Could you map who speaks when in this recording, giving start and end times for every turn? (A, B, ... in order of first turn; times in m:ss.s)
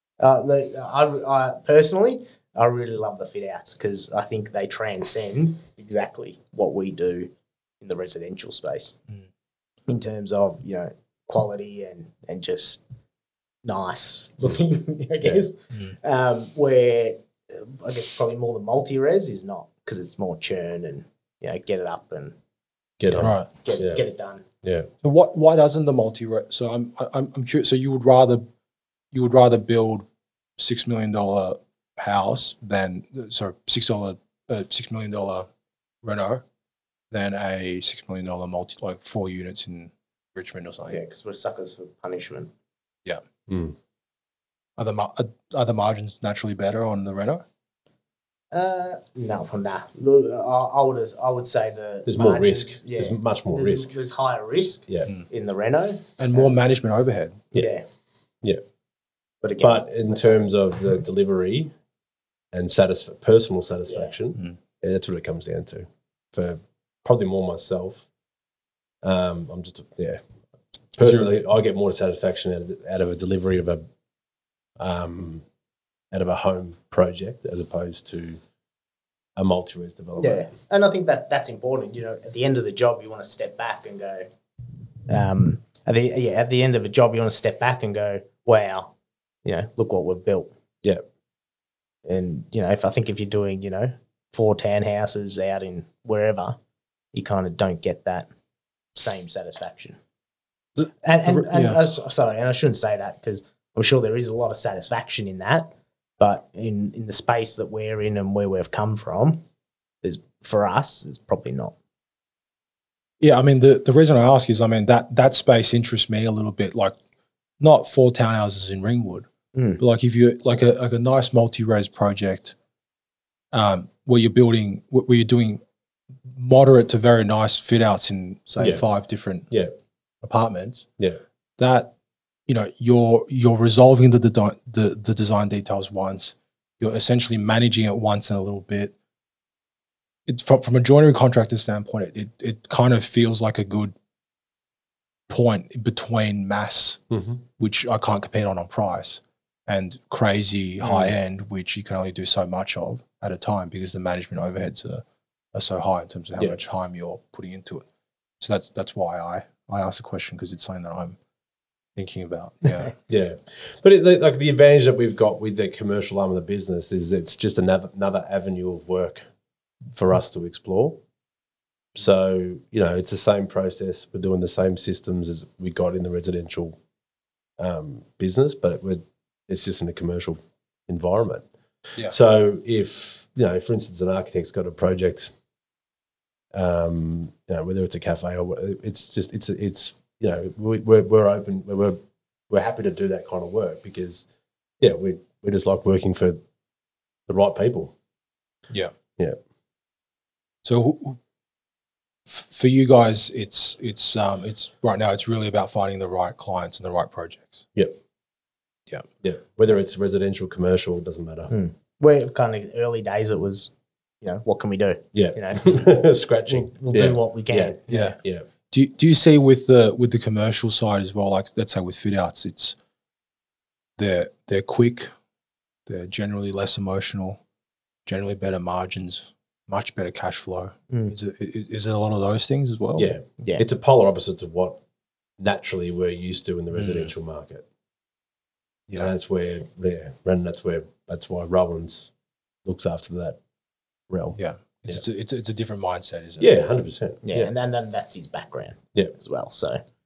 0:00.2-0:09.0 A
0:09.9-0:12.8 A
0:13.6-0:22.3 A
0:23.0-0:24.0 B
0:23.2-0:24.4 A
0:23.2-0:23.5 C
0:24.6-0:24.9 B
0:25.0-0:28.4 C
0:29.1-0:30.0 C
0:30.6-0:35.5 C
0:36.0-0:36.4 C
0:37.1-0:41.0 C
0:40.9-0:42.5 A
0:43.5-0:43.8 B
0:44.8-0:47.4 C
0:48.5-0:56.5 A
0:52.1-0:53.9 B
0:56.2-0:57.5 C
0:57.5-0:57.8 A
0:59.4-1:00.8 A
0:59.6-1:01.7 B
1:02.5-1:08.0 B
1:09.0-1:10.2 B
1:11.0-1:13.8 B
1:11.0-1:11.3 C
1:14.8-1:15.4 B
1:16.1-1:18.4 B
1:19.4-1:20.5 B
1:20.2-1:24.3 A
1:25.1-1:28.9 A
1:29.4-1:30.5 A
1:32.0-1:36.6 A
1:37.1-1:38.3 A
1:38.9-1:40.0 A
1:40.8-1:41.8 C
1:41.0-1:49.4 A
1:50.0-1:51.7 A
1:53.2-1:57.0 C
1:57.6-1:59.3 C
1:59.5-1:59.8 A
1:59.8-2:02.5 C
2:03.5-2:05.6 C
2:06.3-2:09.5 C
2:10.2-2:10.9 C
2:11.6-2:11.9 C
2:12.5-2:18.9 C
2:20.3-2:23.9 C
2:25.3-2:27.0 C
2:27.1-2:27.4 B
2:27.6-2:37.8 C
2:30.8-2:31.1 B
2:38.4-2:41.2 C
2:42.0-2:42.9 C
2:43.1-2:49.2 B
2:49.9-2:51.0 B
2:51.9-2:56.8 B
2:57.6-3:01.5 B
3:02.0-3:05.3 B
3:06.5-3:12.0 B
3:12.5-3:14.3 B
3:14.8-3:16.4 B
3:17.3-3:17.9 B
3:20.6-3:21.2 C
3:22.2-3:27.6 C
3:29.2-3:31.5 B
3:31.5-3:35.9 A
3:35.1-3:38.5 B
3:36.5-3:38.1 A
3:37.9-3:38.2 C
3:38.7-3:42.8 C
3:44.0-3:45.1 C
3:45.9-3:47.4 C
3:48.0-3:53.1 C
3:50.9-3:51.1 A
3:53.0-3:54.8 B
3:55.4-3:57.6 B
3:56.7-3:57.1 C
3:58.9-4:02.1 B
4:02.6-4:03.4 B
4:04.1-4:05.0 B
4:04.4-4:06.6 C
4:06.4-4:07.5 B
4:07.2-4:09.8 A